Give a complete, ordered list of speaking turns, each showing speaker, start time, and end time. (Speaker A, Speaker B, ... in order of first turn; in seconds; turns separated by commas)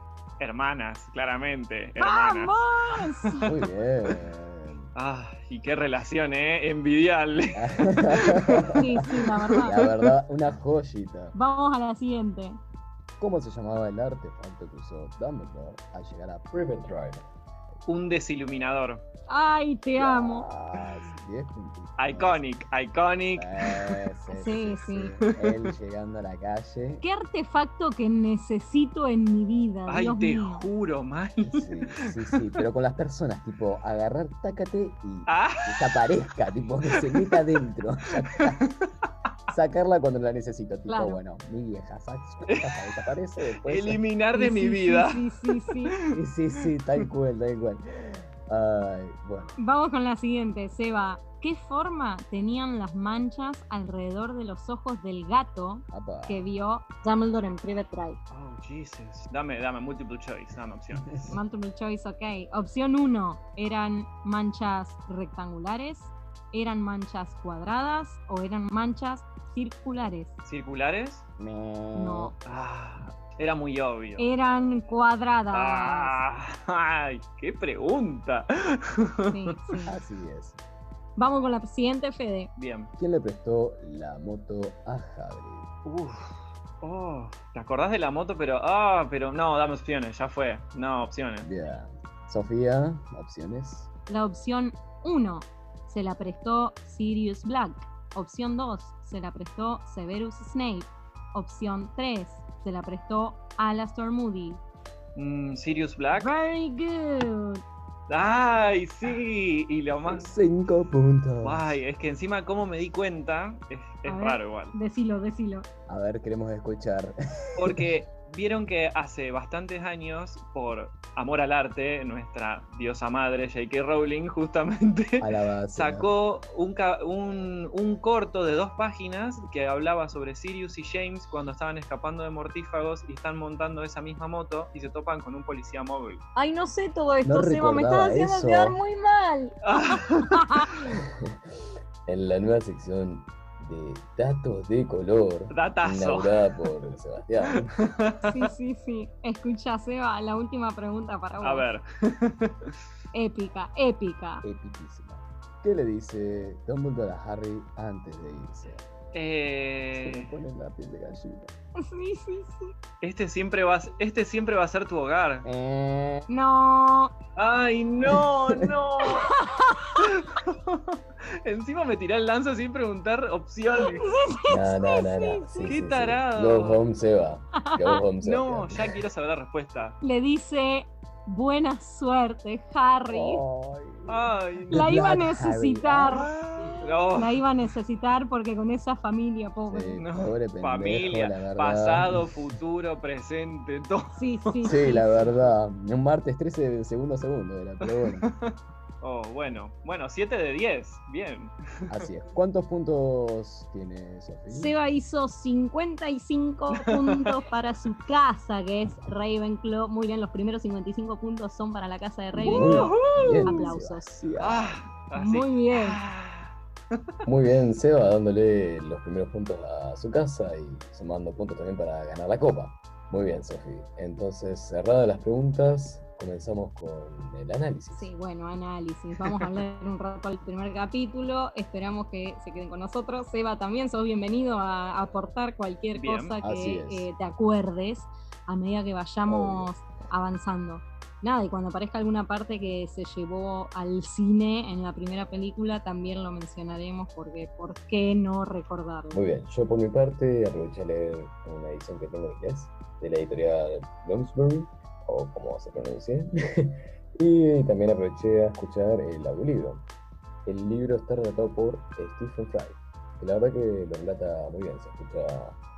Speaker A: 0.4-3.5, Speaker B: 2.0-3.5, Speaker C: 3.5-4.9, Speaker A: 5.0-8.8, Speaker C: 7.6-8.8, Speaker B: 8.8-9.7, Speaker A: 9.4-10.0, Speaker C: 9.6-11.3, Speaker B: 11.3-12.6, Speaker C: 13.2-17.1, Speaker A: 16.5-17.2, Speaker A: 17.9-19.0, Speaker B: 19.3-20.5, Speaker C: 20.0-22.4, Speaker A: 22.0-24.0, Speaker C: 23.4-27.0, Speaker B: 24.3-25.1, Speaker A: 25.4-25.7, Speaker B: 27.0-30.6, Speaker A: 29.9-32.4, Speaker C: 31.4-38.6, Speaker A: 35.3-36.1, Speaker A: 36.9-37.4, Speaker C: 39.5-44.0, Speaker B: 40.9-41.2, Speaker A: 42.5-42.9, Speaker A: 43.6-46.1, Speaker B: 44.3-45.9, Speaker C: 46.1-49.5, Speaker B: 49.6-58.2, Speaker C: 55.9-56.5, Speaker A: 58.3-61.3, Speaker C: 61.1-61.4, Speaker B: 61.3-70.3, Speaker A: 70.4-71.2, Speaker C: 71.4-72.3, Speaker B: 71.9-72.3, Speaker A: 72.5-74.3, Speaker B: 74.2-76.2, Speaker A: 75.5-79.3, Speaker B: 79.3-79.9, Speaker C: 79.8-80.6, Speaker B: 81.2-82.5, Speaker A: 82.5-82.9, Speaker C: 83.0-85.7, Speaker A: 85.8-91.5, Speaker C: 91.4-93.9, Speaker B: 94.1-104.6, Speaker A: 105.2-106.3, Speaker B: 106.1-107.6, Speaker A: 108.1-110.2, Speaker C: 110.0-111.8, Speaker A: 111.4-114.8, Speaker B: 114.0-115.7, Speaker C: 115.9-117.8, Speaker A: 117.6-136.2, Speaker C: 125.2-126.1, Speaker B: 136.3-140.8, Speaker C: 137.2-138.8, Speaker A: 139.7-140.4, Speaker C: 142.1-147.8, Speaker A: 145.5-146.3, Speaker A: 147.8-148.5, Speaker B: 148.2-151.7, Speaker A: 151.4-152.7, Speaker B: 153.1-154.4, Speaker C: 154.4-158.8, Speaker A: 159.1-160.3, Speaker C: 159.9-161.5, Speaker B: 161.8-162.7, Speaker A: 163.0-165.4, Speaker C: 165.4-166.2, Speaker B: 166.3-167.1, Speaker A: 167.3-169.3, Speaker C: 168.1-168.7, Speaker B: 169.1-169.9, Speaker A: 170.0-174.1, Speaker B: 174.0-175.8, Speaker C: 174.5-179.1, Speaker A: 175.7-176.8, Speaker B: 177.6-178.0, Speaker A: 178.2-180.0, Speaker B: 180.0-183.4, Speaker C: 183.1-186.8, Speaker A: 184.1-184.8, Speaker B: 184.7-186.3, Speaker A: 186.7-187.4, Speaker B: 187.2-190.0, Speaker C: 189.7-192.6, Speaker A: 190.0-194.8, Speaker B: 194.2-195.3, Speaker C: 194.6-198.3, Speaker A: 197.8-201.5, Speaker C: 201.9-204.7, Speaker B: 204.5-214.1, Speaker A: 206.7-207.3, Speaker C: 208.8-209.1, Speaker C: 212.3-214.8, Speaker A: 212.4-213.8, Speaker A: 214.4-217.0, Speaker B: 215.1-216.0, Speaker C: 217.2-228.1, Speaker B: 227.9-249.2, Speaker A: 235.9-236.3, Speaker C: 236.4-237.1, Speaker C: 239.2-239.8, Speaker C: 249.1-259.8, Speaker C: 260.4-265.6